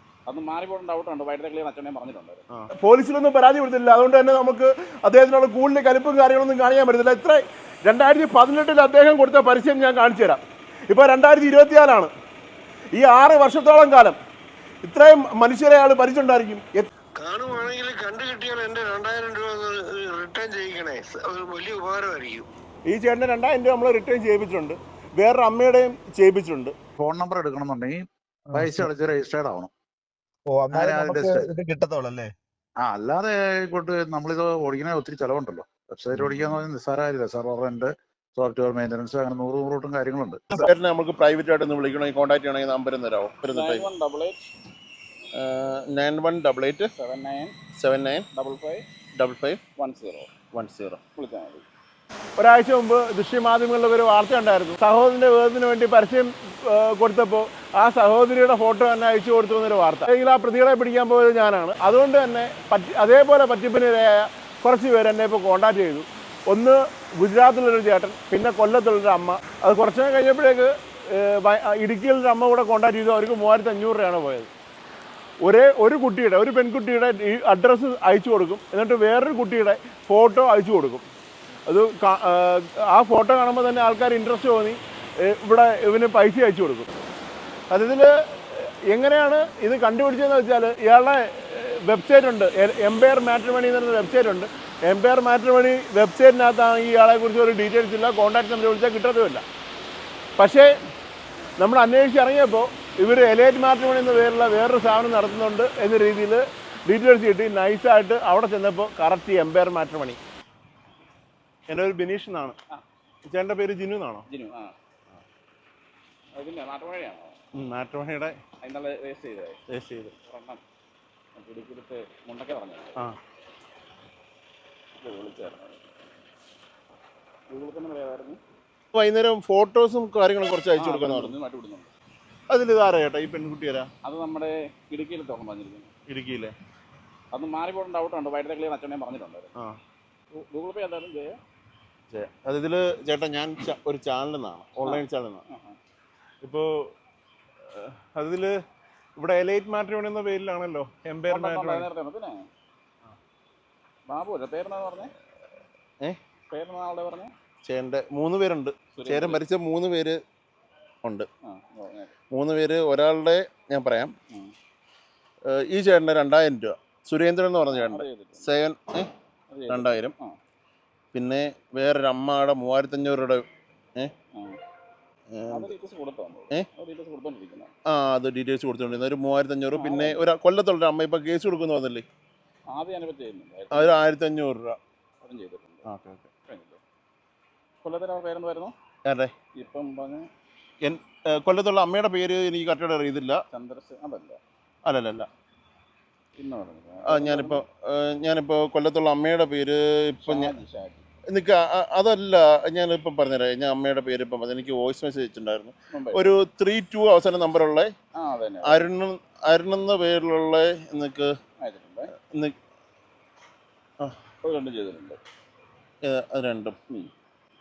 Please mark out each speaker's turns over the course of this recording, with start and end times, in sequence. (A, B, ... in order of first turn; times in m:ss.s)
0:00.3-0:02.4 A
0:02.5-0:12.1 B
0:13.0-0:14.2 B
0:14.8-0:16.9 B
0:17.2-0:22.5 C
0:22.9-0:26.7 B
0:27.0-0:29.7 D
0:28.5-0:28.8 E
0:30.5-0:32.3 E
0:30.7-0:31.5 D
0:32.8-0:40.4 D
0:40.5-0:43.9 B
0:43.5-0:44.5 A
0:45.4-0:46.9 B
0:47.0-0:47.6 A
0:47.8-0:48.2 B
0:48.3-0:48.8 A
0:49.2-0:49.6 B
0:49.8-0:50.3 A
0:50.5-0:51.0 B
0:51.2-0:51.6 A
0:52.4-1:14.5 B
1:15.4-1:21.0 B
1:21.7-1:26.9 B
1:27.7-1:39.4 B
1:40.4-1:40.7 B
1:41.6-1:50.2 B
1:51.7-1:52.6 B
1:53.3-1:54.2 B
1:54.3-1:54.8 A
1:56.4-1:57.4 A
1:57.6-1:58.4 B
1:58.6-1:59.6 A
1:59.7-2:00.1 B
2:00.3-2:00.6 A
2:01.4-2:03.0 A
2:05.0-2:05.8 A
2:07.5-2:08.4 A
2:08.9-2:11.4 B
2:10.8-2:11.9 A
2:12.5-2:13.9 B
2:14.0-2:15.9 A
2:16.1-2:16.5 B
2:17.3-2:19.5 A
2:20.4-2:21.3 A
2:22.1-2:25.4 B
2:24.8-2:25.8 A
2:26.4-2:26.9 B
2:27.7-2:28.6 B
2:29.2-2:31.9 B
2:31.3-2:32.4 A
2:34.1-2:35.1 A
2:36.5-2:37.3 A
2:37.6-2:40.2 B
2:39.0-2:39.4 A
2:41.5-2:42.1 A
2:42.3-2:44.1 B
2:45.5-2:49.1 B
2:47.7-2:48.6 A
2:49.5-2:50.4 A
2:49.7-2:50.1 B
2:51.1-2:53.4 B
2:55.3-2:55.7 B
2:55.5-2:57.7 A
2:57.9-3:02.0 B
2:59.8-3:00.2 A
3:02.7-3:04.0 A
3:03.7-3:04.8 B
3:05.2-3:05.8 A
3:05.9-3:06.3 B
3:06.5-3:06.8 A
3:07.8-3:08.7 A
3:09.0-3:09.3 B
3:09.6-3:10.3 A
3:10.8-3:13.4 B
3:13.5-3:14.4 A
3:14.9-3:15.3 B
3:16.4-3:17.6 A
3:17.1-3:20.5 B
3:20.2-3:21.0 A
3:21.3-3:27.9 B
3:25.9-3:26.3 A
3:28.2-3:28.9 A
3:28.6-3:31.4 B
3:31.6-3:32.1 A
3:32.3-3:32.6 B
3:34.4-3:35.2 A
3:36.0-3:36.8 B